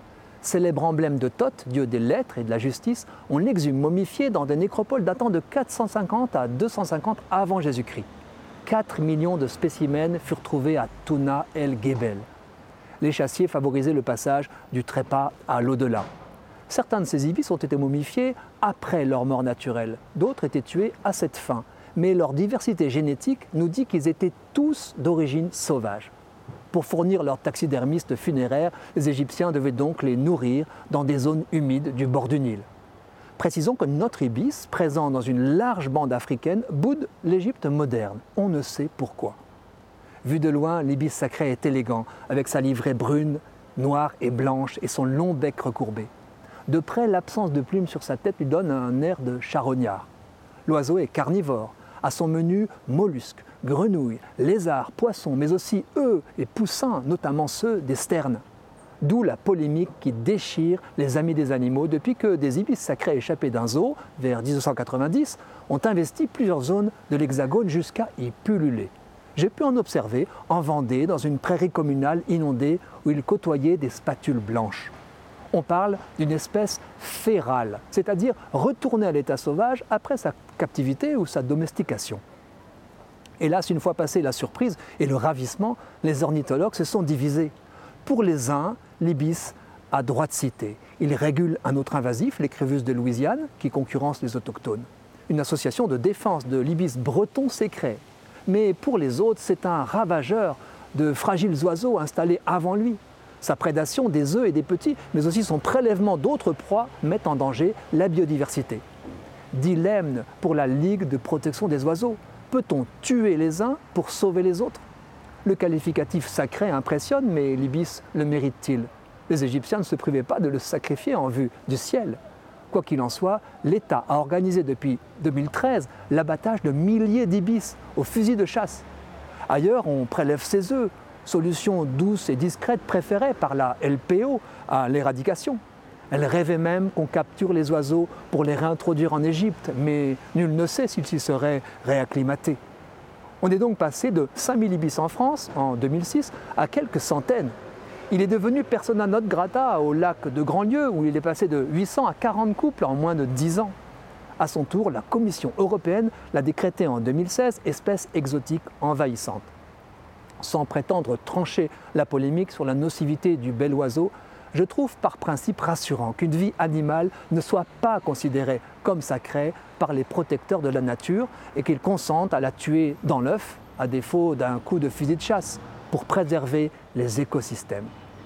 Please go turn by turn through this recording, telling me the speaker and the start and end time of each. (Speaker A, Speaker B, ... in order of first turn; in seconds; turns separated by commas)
Speaker A: 0.4-8.1, Speaker A: 8.6-12.3, Speaker A: 13.0-16.1, Speaker A: 16.7-26.1, Speaker A: 26.7-32.6, Speaker A: 33.4-39.4, Speaker A: 40.2-46.1, Speaker A: 46.7-50.1, Speaker A: 50.6-58.4, Speaker A: 59.0-74.9, Speaker A: 75.5-82.2, Speaker A: 83.4-108.8, Speaker A: 109.5-114.8, Speaker A: 115.4-122.2, Speaker A: 122.7-128.8, Speaker A: 129.5-142.6, Speaker A: 143.4-147.5, Speaker A: 148.1-153.7, Speaker A: 154.4-159.5, Speaker A: 160.4-177.9